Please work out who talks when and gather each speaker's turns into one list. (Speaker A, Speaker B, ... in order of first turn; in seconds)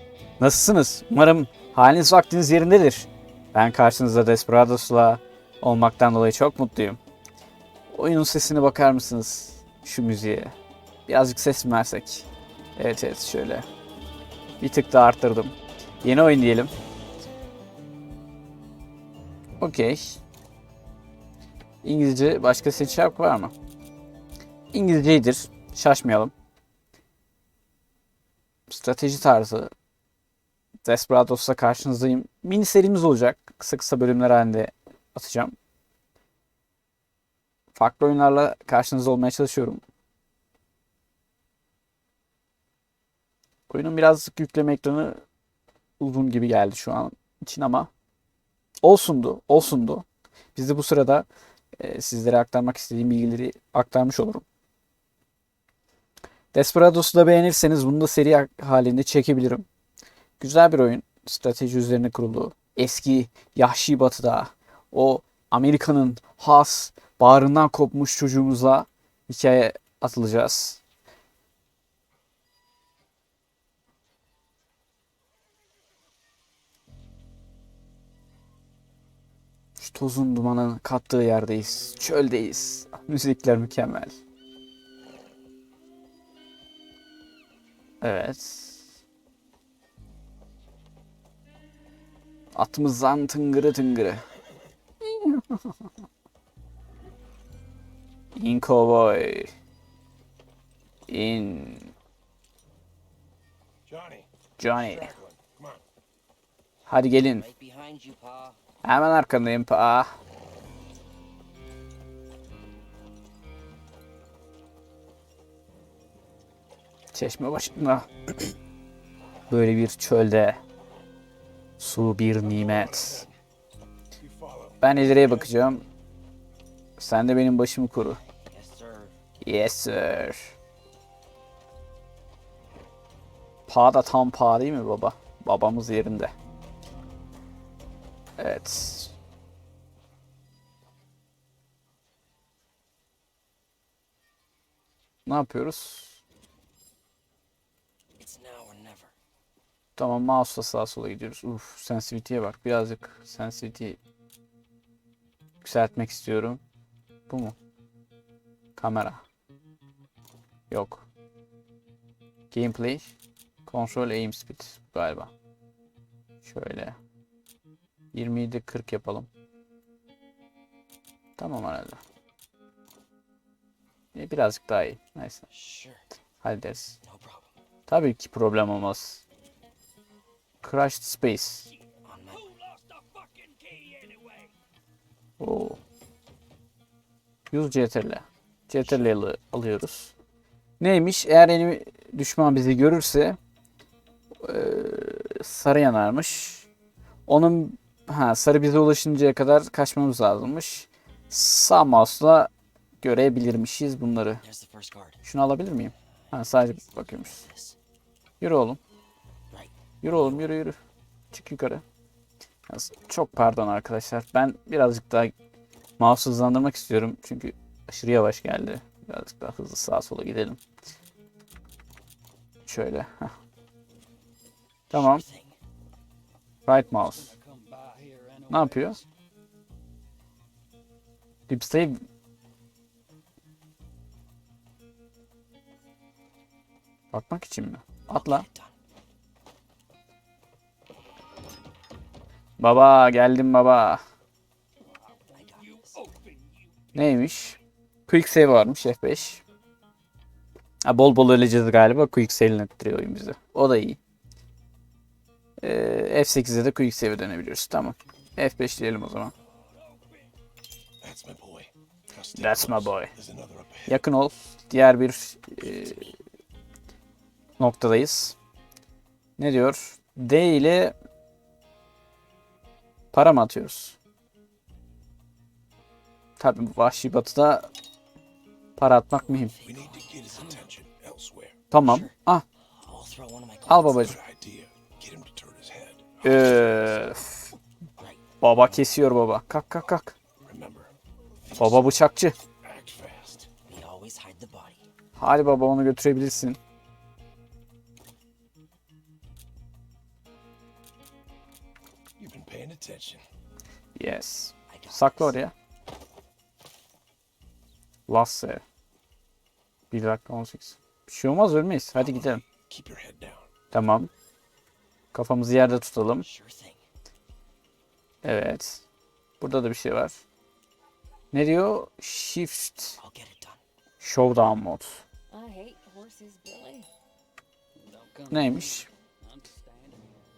Speaker A: 0.4-7.0, 7.9-10.5, 11.1-13.7, 14.6-16.7, 19.6-20.2, 21.8-23.5, 24.7-26.3, 28.7-29.7, 30.8-35.5, 37.7-39.8, 43.7-45.2, 46.0-47.9, 48.8-54.4, 56.5-59.6, 60.4-70.8, 79.8-84.2, 88.0-88.8, 92.5-94.2, 95.0-95.6, 98.3-99.5, 101.1-101.9, 104.6-105.1, 106.9-107.5, 108.8-110.1, 117.1-118.1, 119.5-120.6, 121.8-123.2, 124.8-125.8, 127.0-128.2, 129.4-130.5, 133.7-136.3, 138.4-139.1, 145.2-146.2, 150.0-154.0, 155.6-156.6, 157.3-157.6, 158.8-159.2, 160.7-161.1, 162.5-163.1, 163.7-165.3, 166.4-167.0, 168.1-169.3, 171.4-172.0, 174.1-175.4, 176.4-177.0, 177.9-179.2, 180.6-181.7, 185.4-185.8, 187.5-190.1, 190.8-193.4, 194.4-196.7, 197.3-204.4, 205.2-207.4, 208.4-208.8, 210.0-210.8, 211.3-211.8, 212.7-215.3, 216.0-220.6, 222.7-223.3, 224.9-225.2, 226.7-227.4, 228.5-229.0, 231.5-232.0, 237.1-238.4, 242.6-244.0, 246.9-249.4, 250.8-254.0, 255.6-259.3, 262.4-263.1, 263.9-266.1, 267.6-268.4, 269.4-270.9, 273.1-274.0, 276.4-277.7, 278.8-279.5, 281.7-282.4, 283.7-284.1, 286.2-287.5, 288.4-290.1, 291.6-292.3, 295.1-296.6, 303.9-305.5, 308.1-308.6, 309.9-312.4, 313.7-314.1, 315.1-316.3, 318.2-318.8, 319.4-320.2, 321.3-323.0, 324.0-325.0, 328.3-328.9
Speaker B: 103.8-105.8, 122.4-123.4, 124.2-125.5, 261.0-264.0, 279.6-281.6, 284.0-287.1, 290.4-292.0, 292.6-293.5, 302.2-303.2, 311.9-313.5
Speaker C: 107.2-108.6, 128.5-129.2, 148.2-149.1, 175.5-176.0, 177.0-177.5, 182.0-182.6, 204.4-205.2, 206.3-207.8, 209.5-210.4, 224.9-225.6, 238.1-238.8, 245.3-246.1, 265.6-266.1, 279.1-280.7, 281.8-282.1, 282.8-284.2, 288.0-288.5, 293.7-294.8, 304.7-305.4, 316.2-316.8, 323.0-323.6
Speaker D: 182.6-184.5, 226.9-229.0, 246.1-246.4, 325.3-326.9, 327.8-330.2